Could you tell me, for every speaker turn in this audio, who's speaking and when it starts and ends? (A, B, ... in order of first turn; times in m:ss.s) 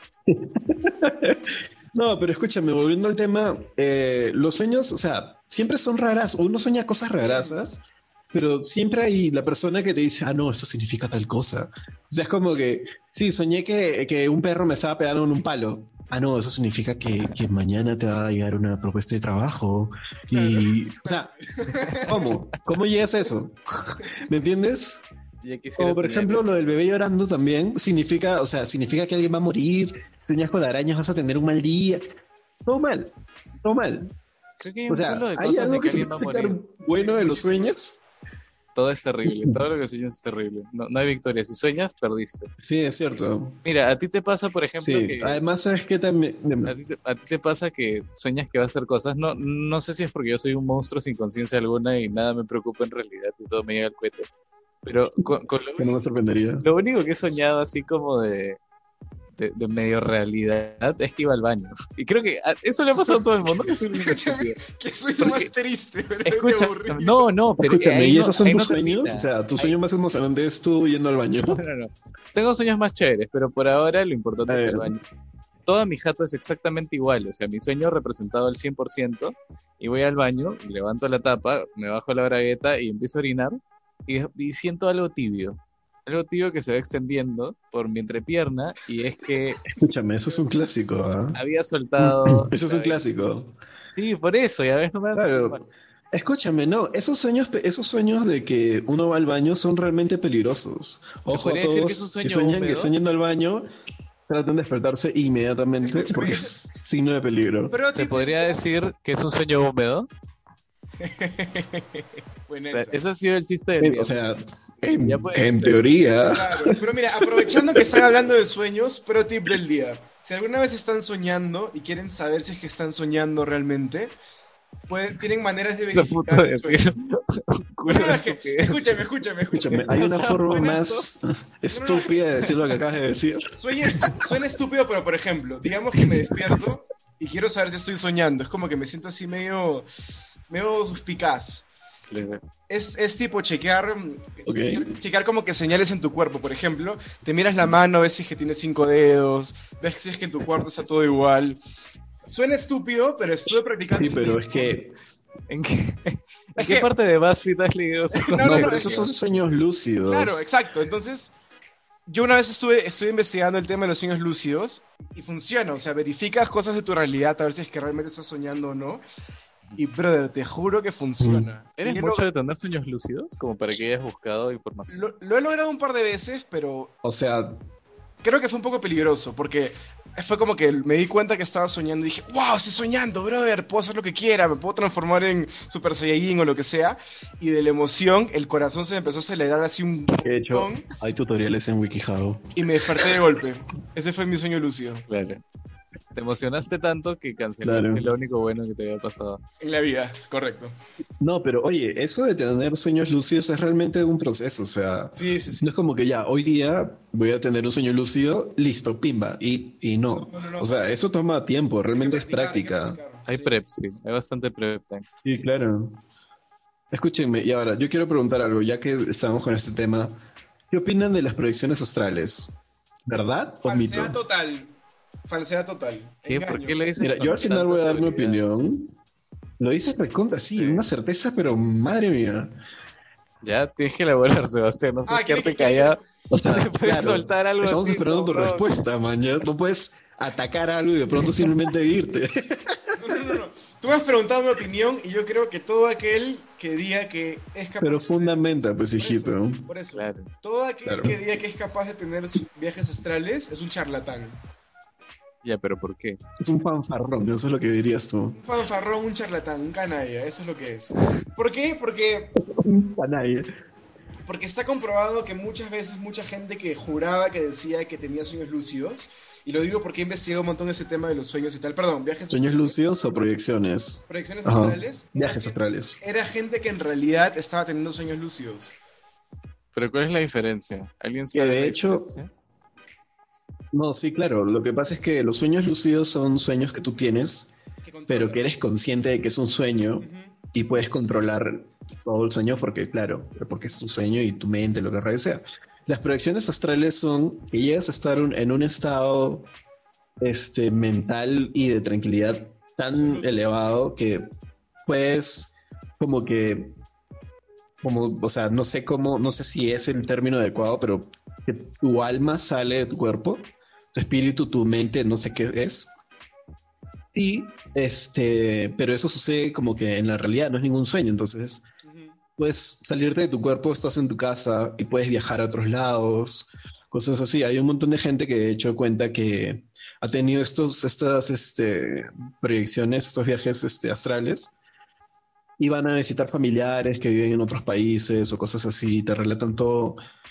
0:00.3-0:21.3 A
0:07.2-0:07.6 B
0:20.3-0:22.2 B
0:22.0-0:25.0 A
0:25.4-0:26.6 C
0:25.8-0:32.0 A
0:32.6-0:34.1 A
0:34.6-0:36.6 C
0:34.9-0:38.0 A
0:36.9-0:37.7 B
0:38.7-0:42.5 C
0:42.6-0:43.6 A
0:43.6-0:45.4 C
0:44.8-0:46.7 A
0:46.6-0:54.3 C
0:54.8-0:55.9 C
0:55.8-0:56.6 A
0:56.6-0:58.6 C
0:59.4-1:04.6 C
1:03.4-1:07.3 B
1:05.2-1:05.5 C
1:06.2-1:09.8 C
1:07.6-1:11.6 A
1:11.5-1:15.0 C
1:14.5-1:14.9 A
1:15.6-1:29.6 C
1:29.6-1:31.4 A
1:31.3-1:33.0 C
1:32.0-1:33.5 A
1:33.9-1:35.6 C
1:35.1-1:43.6 A
1:41.3-1:42.9 C
1:44.3-1:47.8 A
1:45.8-1:46.6 B
1:47.7-1:48.6 B
1:47.9-1:50.1 C
1:51.0-1:53.0 B
1:52.7-1:55.9 C
1:53.8-1:56.8 A
1:56.2-2:04.1 B
2:04.9-2:06.9 B
2:05.9-2:09.0 C
2:07.9-2:10.8 B
2:09.5-2:14.2 A
2:09.7-2:11.0 C
2:11.7-2:12.5 B
2:13.5-2:21.6 B
2:22.1-2:22.4 C
2:22.7-2:31.6 B
2:24.4-2:24.9 A
2:32.2-2:34.7 B
2:33.9-2:34.9 A
2:35.5-2:39.1 C
2:36.6-2:36.9 B
2:38.1-2:39.2 B
2:38.4-2:40.4 A
2:40.0-2:41.3 B
2:42.1-2:49.0 B
2:49.8-2:52.2 B
2:51.2-2:51.5 A
2:51.8-2:55.1 C
2:54.9-2:56.9 B
2:57.0-2:57.6 A
2:58.2-3:10.9 B
3:10.2-3:13.2 A
3:12.5-3:15.0 B
3:15.1-3:15.4 C
3:16.1-3:19.4 C
3:17.6-3:18.0 A
3:19.6-3:20.7 B
3:21.2-3:33.0 A
3:25.1-3:25.6 B
3:30.1-3:30.9 B
3:31.9-3:33.5 B
3:33.2-3:35.1 C
3:35.2-3:36.0 A
3:36.9-3:44.2 A
3:43.6-3:44.8 B
3:45.3-3:46.8 B
3:46.2-3:48.4 C
3:47.0-3:48.9 A
3:49.6-3:52.5 A
3:50.6-3:50.8 C
3:53.4-3:58.7 C
3:55.1-3:56.1 B
3:56.3-4:03.0 A
4:03.0-4:14.4 B
4:07.8-4:09.6 A
4:09.9-4:10.3 C
4:10.8-4:11.2 A
4:15.4-4:16.2 C
4:16.4-4:18.4 A
4:18.4-4:22.4 B
4:22.4-4:23.5 A
4:24.2-4:32.8 B
4:32.3-4:36.0 A
4:34.1-4:38.7 B
4:39.7-4:42.3 C
4:41.3-4:42.1 A
4:43.7-4:47.5 A
4:47.8-4:48.6 B
4:48.1-4:59.5 A
4:50.0-4:50.4 B
5:00.2-5:04.3 A
5:02.9-5:03.4 B
5:04.8-5:06.7 A
5:07.8-5:15.9 A
5:17.1-5:21.6 A
5:21.8-5:22.2 B
5:22.4-5:34.5 A
5:35.6-5:40.0 A